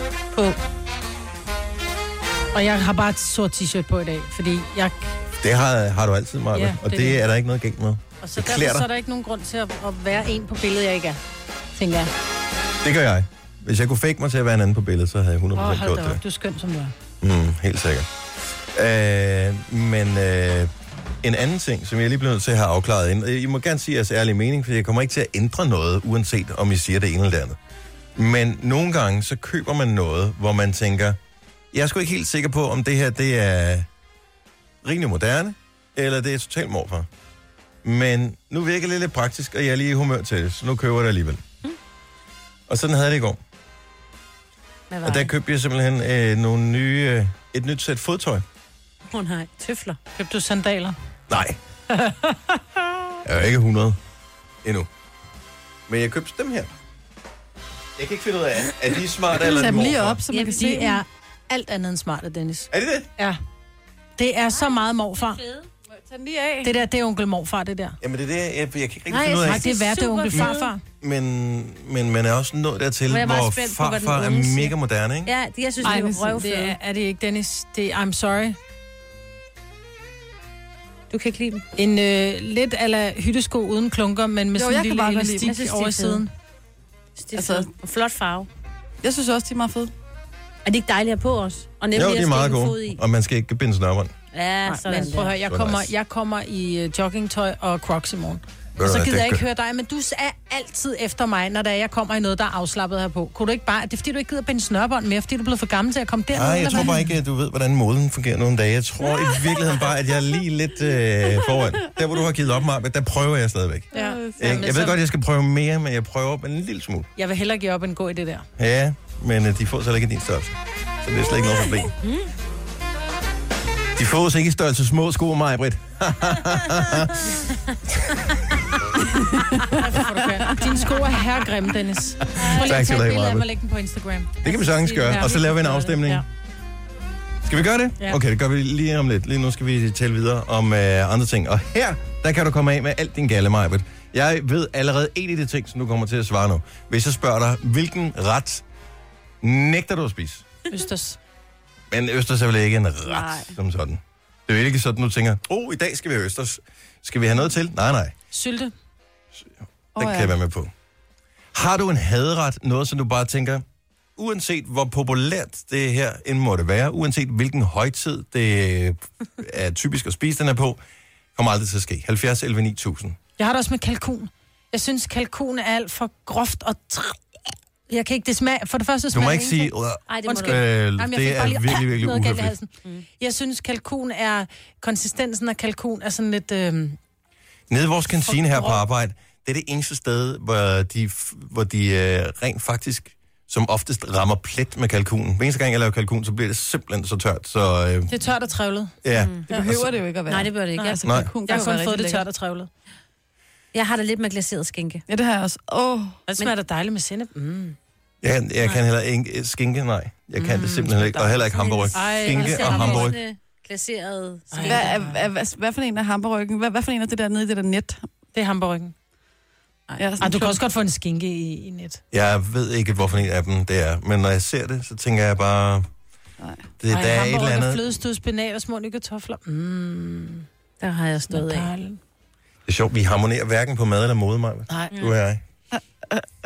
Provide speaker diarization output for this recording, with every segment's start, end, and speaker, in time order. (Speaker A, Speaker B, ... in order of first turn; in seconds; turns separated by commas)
Speaker A: 2.5-5.1, Speaker B: 5.4-8.9, Speaker A: 6.5-7.2, Speaker A: 8.2-11.2, Speaker A: 11.7-12.1, Speaker B: 12.8-16.2, Speaker A: 15.5-16.9, Speaker B: 17.2-18.1, Speaker B: 18.7-20.7, Speaker B: 21.2-27.6, Speaker B: 28.1-31.2, Speaker B: 31.7-33.9, Speaker B: 34.8-37.1, Speaker B: 37.8-41.4, Speaker B: 42.7-43.4, Speaker C: 44.9-45.3, Speaker B: 45.0-48.4, Speaker C: 49.1-50.0, Speaker A: 50.1-51.0, Speaker B: 51.3-51.6, Speaker A: 51.9-52.8, Speaker B: 53.2-54.0, Speaker B: 54.6-54.9, Speaker B: 55.9-56.7, Speaker B: 58.0-60.2, Speaker D: 59.4-61.0, Speaker A: 60.3-63.4, Speaker B: 62.7-63.1, Speaker A: 64.2-65.4, Speaker C: 64.7-65.7, Speaker D: 65.9-66.7, Speaker A: 66.6-68.0, Speaker B: 68.0-69.7, Speaker C: 69.1-70.7, Speaker A: 69.4-70.8, Speaker B: 70.3-75.3, Speaker C: 73.1-74.7, Speaker C: 75.2-76.8, Speaker A: 75.8-78.6, Speaker D: 75.8-76.2, Speaker C: 81.1-81.6, Speaker A: 81.8-86.3, Speaker D: 84.5-85.6, Speaker C: 85.4-86.2, Speaker C: 87.2-88.5, Speaker D: 87.3-87.7, Speaker D: 89.0-89.9, Speaker C: 90.6-93.0, Speaker B: 91.9-94.1, Speaker C: 94.3-95.3, Speaker A: 94.7-107.1, Speaker B: 95.5-95.9, Speaker B: 98.8-99.4, Speaker B: 106.3-117.1, Speaker A: 113.9-115.0, Speaker D: 113.9-114.6, Speaker A: 117.2-118.5, Speaker B: 118.6-121.9, Speaker B: 124.0-127.3, Speaker A: 129.7-134.4, Speaker C: 132.4-132.8, Speaker B: 132.4-133.5, Speaker B: 134.4-136.2, Speaker C: 134.5-136.0, Speaker A: 135.0-136.2, Speaker B: 137.4-148.6, Speaker B: 149.4-150.4, Speaker A: 150.7-151.2, Speaker B: 151.9-158.1, Speaker D: 153.1-153.5, Speaker A: 158.3-158.7, Speaker D: 159.9-160.3, Speaker B: 159.9-160.7, Speaker B: 161.5-163.6, Speaker B: 164.2-170.8, Speaker B: 171.3-173.2, Speaker A: 173.4-177.2, Speaker A: 177.9-179.7, Speaker B: 179.1-182.5, Speaker C: 180.1-180.6, Speaker A: 180.2-187.0, Speaker B: 187.7-198.2, Speaker A: 188.2-188.8, Speaker A: 198.1-198.9, Speaker B: 199.0-199.9, Speaker C: 199.1-199.5, Speaker D: 199.5-202.2, Speaker C: 200.3-201.0, Speaker A: 200.8-202.7, Speaker B: 201.0-201.3, Speaker C: 203.7-205.0, Speaker D: 205.1-206.2, Speaker A: 206.3-207.8, Speaker B: 208.2-213.2, Speaker C: 210.4-214.9, Speaker A: 210.6-211.3, Speaker A: 211.9-213.1, Speaker A: 214.5-215.2, Speaker D: 214.6-218.0, Speaker A: 218.3-218.9, Speaker D: 220.0-220.6, Speaker A: 220.2-222.0, Speaker B: 222.1-225.9, Speaker D: 226.4-226.7, Speaker B: 226.8-227.9, Speaker A: 226.9-230.4, Speaker C: 230.8-231.7, Speaker A: 231.3-232.0, Speaker B: 232.7-235.4, Speaker A: 234.7-235.1, Speaker D: 235.7-236.2